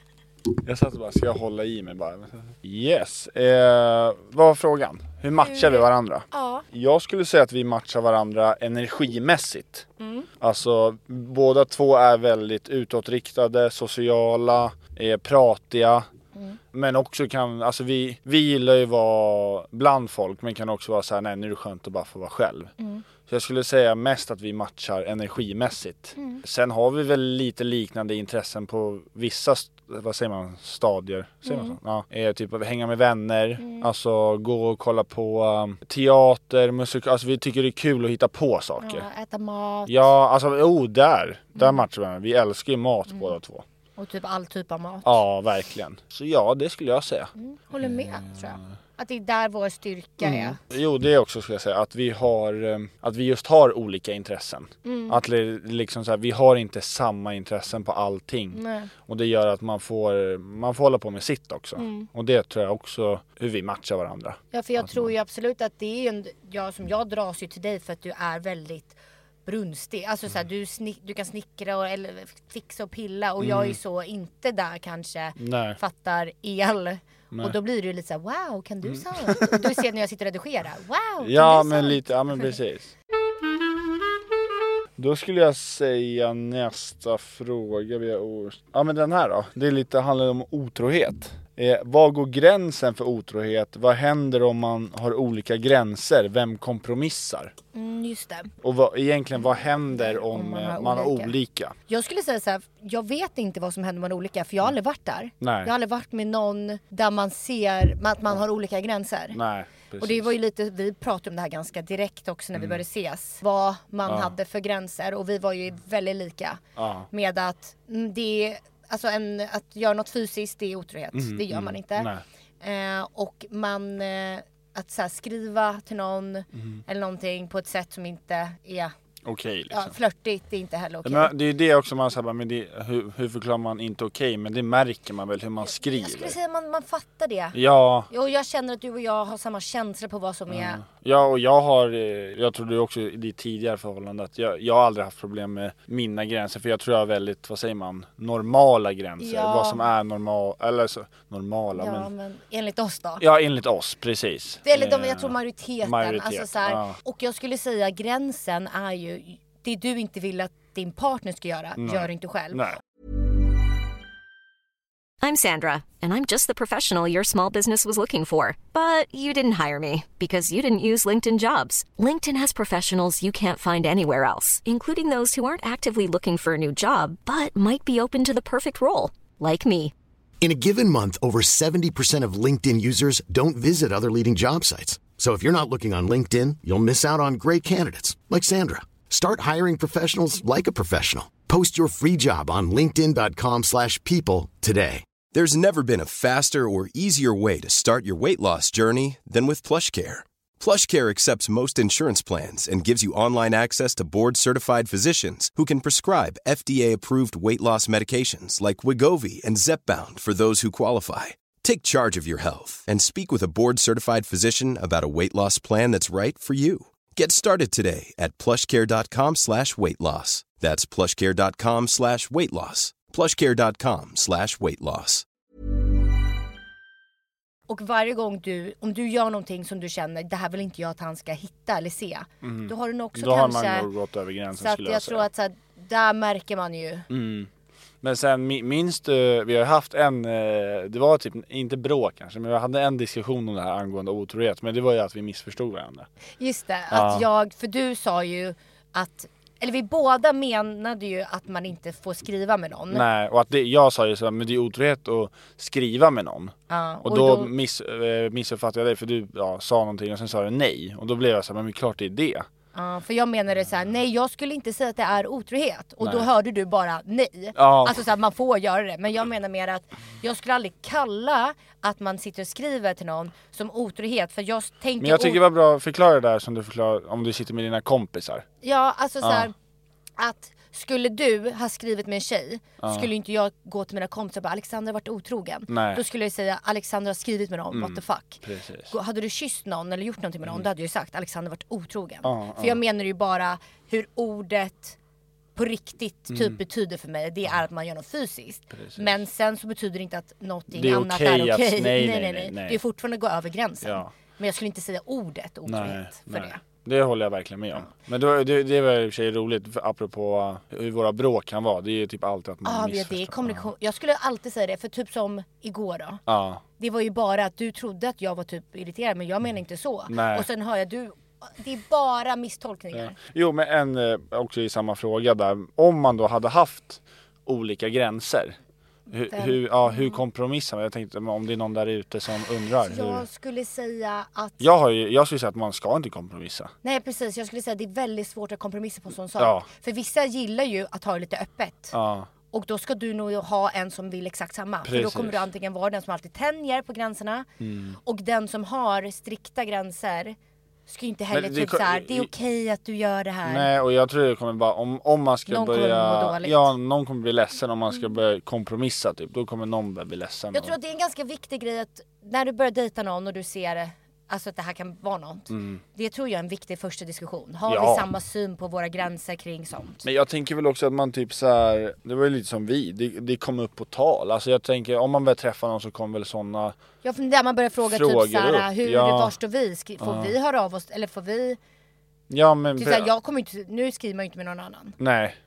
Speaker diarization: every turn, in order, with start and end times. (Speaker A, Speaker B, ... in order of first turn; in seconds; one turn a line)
Speaker A: 0.6-9.9
Speaker B: 5.4-6.7
Speaker B: 10.0-10.3
Speaker A: 10.4-16.1
Speaker A: 16.7-22.7
Speaker B: 22.8-23.0
Speaker A: 23.3-39.1
Speaker B: 26.2-26.4
Speaker B: 31.4-31.8
Speaker B: 33.6-33.9
Speaker B: 38.8-40.1
Speaker A: 39.9-43.6
Speaker B: 44.0-45.2
Speaker A: 45.0-48.6
Speaker B: 47.4-50.6
Speaker A: 50.2-65.1
Speaker B: 54.8-55.2
Speaker B: 58.5-58.9
Speaker B: 61.8-62.1
Speaker B: 64.5-82.5
Speaker A: 73.4-73.8
Speaker A: 75.4-75.8
Speaker A: 78.9-79.7
Speaker A: 81.2-82.9
Speaker A: 85.0-97.5
Speaker B: 97.7-98.5
Speaker A: 98.6-101.8
Speaker B: 99.9-101.3
Speaker B: 101.9-109.4
Speaker A: 105.4-105.7
Speaker A: 109.3-110.3
Speaker B: 110.0-122.1
Speaker A: 112.5-112.8
Speaker A: 114.1-114.3
Speaker A: 116.8-117.1
Speaker A: 121.1-122.2
Speaker B: 122.6-128.9
Speaker A: 126.5-126.8
Speaker A: 129.2-129.9
Speaker B: 129.7-131.3
Speaker A: 131.0-136.4
Speaker B: 135.7-137.6
Speaker A: 137.5-138.1
Speaker B: 138.1-140.8
Speaker A: 140.5-152.1
Speaker B: 149.2-149.9
Speaker B: 151.8-153.2
Speaker A: 153.2-157.0
Speaker B: 154.7-162.7
Speaker A: 161.8-162.8
Speaker C: 165.2-179.9
Speaker D: 180.4-195.1
Speaker E: 195.3-225.2
Speaker B: 227.7-233.9
Speaker A: 232.4-235.3
Speaker B: 234.5-237.1
Speaker A: 237.1-237.5
Speaker A: 238.0-246.1
Speaker B: 246.4-253.1
Speaker A: 246.9-247.3
Speaker A: 252.9-262.5
Speaker B: 256.7-257.5
Speaker B: 262.7-275.4
Speaker A: 266.0-266.3
Speaker A: 267.6-268.0
Speaker A: 275.0-278.4
Speaker B: 278.6-279.5
Speaker A: 279.2-279.5
Speaker B: 280.2-295.0
Speaker A: 282.8-283.1
Speaker A: 285.7-286.0
Speaker A: 287.7-288.9
Speaker A: 292.2-292.8
Speaker B: 295.6-306.6
Speaker A: 296.3-296.6
Speaker A: 298.7-299.2
Speaker A: 300.7-302.8
Speaker A: 303.8-304.1
Speaker A: 305.7-313.7
Speaker B: 312.6-316.2
Speaker A: 316.3-316.6
Speaker B: 316.8-323.2
Speaker A: 320.1-320.5
Speaker A: 322.9-328.6
Speaker A: 329.1-333.2
Speaker B: 329.2-330.2
Speaker B: 332.8-334.6
Speaker A: 334.6-336.7
Speaker B: 336.8-341.9
Speaker A: 339.4-339.7
Speaker A: 341.9-342.3
Speaker B: 342.5-347.5
Speaker A: 344.8-345.5
Speaker A: 347.6-348.0
Speaker B: 348.0-350.4
Speaker B: 350.9-353.7
Speaker A: 351.3-352.3
Speaker A: 353.5-360.8
Speaker B: 355.5-356.7
Speaker B: 360.5-370.1
Speaker A: 365.5-365.8
Speaker A: 367.7-368.1
Speaker A: 370.0-376.8
Speaker B: 377.0-381.6
Speaker A: 377.9-379.3
Speaker A: 380.0-380.3
Speaker A: 382.3-383.1
Speaker B: 382.8-385.0
Speaker A: 385.0-385.4